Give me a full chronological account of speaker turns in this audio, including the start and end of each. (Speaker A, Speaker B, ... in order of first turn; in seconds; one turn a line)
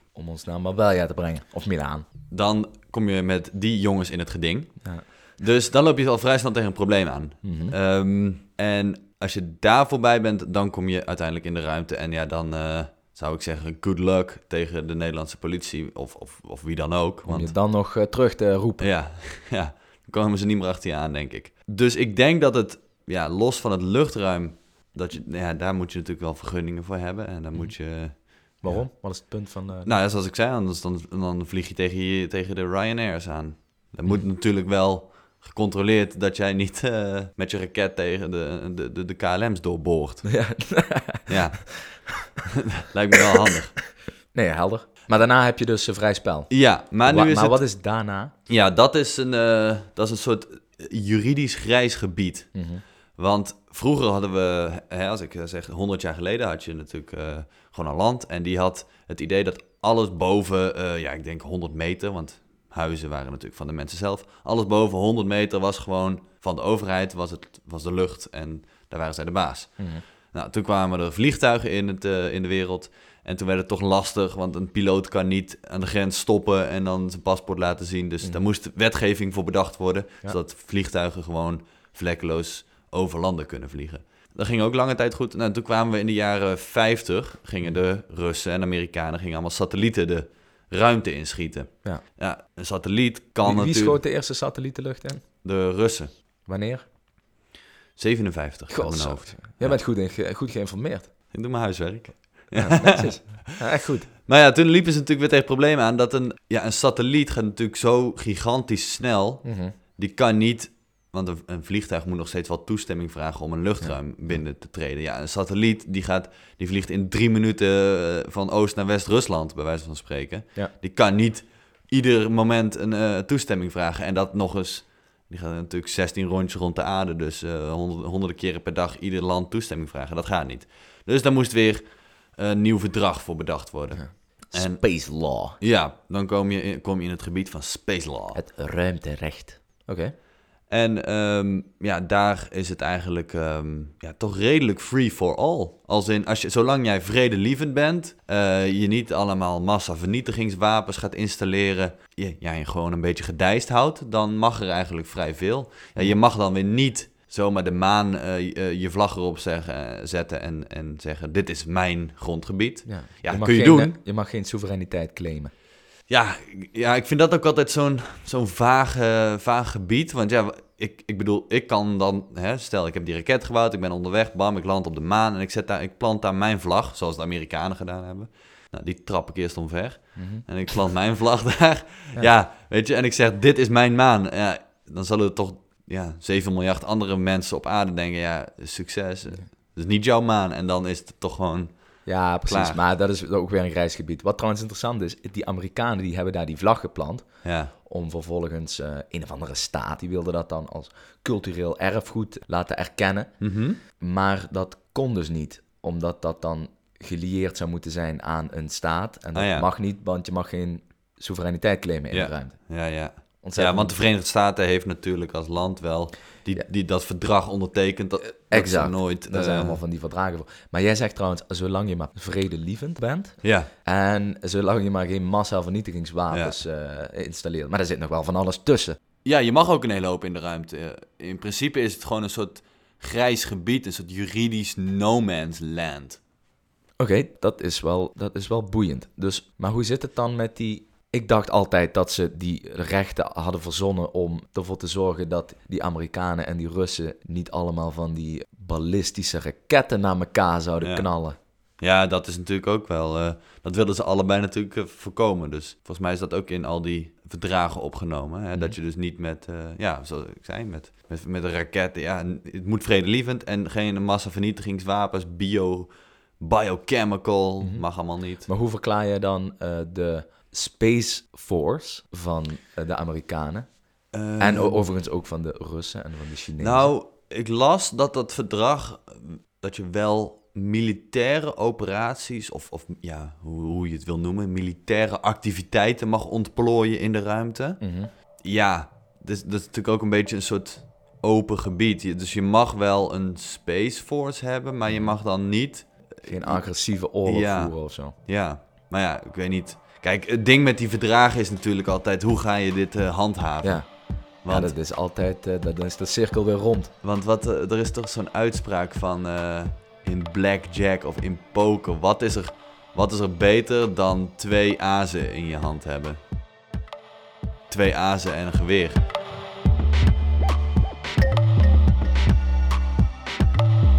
Speaker A: 0.1-2.1
Speaker B: 2.3-17.5
Speaker A: 7.4-7.7
Speaker A: 17.2-18.9
Speaker B: 18.8-28.9
Speaker A: 27.5-29.9
Speaker B: 29.8-40.4
Speaker A: 40.2-41.3
Speaker B: 41.3-43.8
Speaker A: 44.3-48.3
Speaker B: 46.5-47.8
Speaker B: 48.5-94.0
Speaker A: 52.5-52.8
Speaker A: 69.8-70.0
Speaker A: 93.4-95.3
Speaker B: 95.4-96.1
Speaker A: 96.5-96.9
Speaker B: 98.0-99.8
Speaker A: 98.7-101.1
Speaker B: 101.3-103.4
Speaker A: 102.5-104.1
Speaker B: 104.2-138.4
Speaker A: 109.4-109.7
Speaker A: 113.8-114.4
Speaker A: 133.9-135.6
Speaker A: 138.3-140.1
Speaker B: 140.7-163.9
Speaker A: 162.8-165.5
Speaker B: 166.1-192.8
Speaker A: 180.2-180.4
Speaker A: 192.1-213.9
Speaker B: 197.4-197.7
Speaker B: 203.4-203.8
Speaker B: 209.3-209.7
Speaker B: 212.1-219.8
Speaker A: 218.4-229.0
Speaker B: 223.4-223.7
Speaker B: 226.3-226.6
Speaker B: 229.2-236.2
Speaker A: 237.0-251.4
Speaker B: 250.8-268.5
Speaker A: 267.6-276.9
Speaker B: 274.1-274.8
Speaker B: 276.6-304.8
Speaker A: 287.8-288.1
Speaker A: 294.9-295.2
Speaker A: 296.2-298.1
Speaker A: 303.6-306.9
Speaker B: 307.0-316.2
Speaker B: 317.7-319.0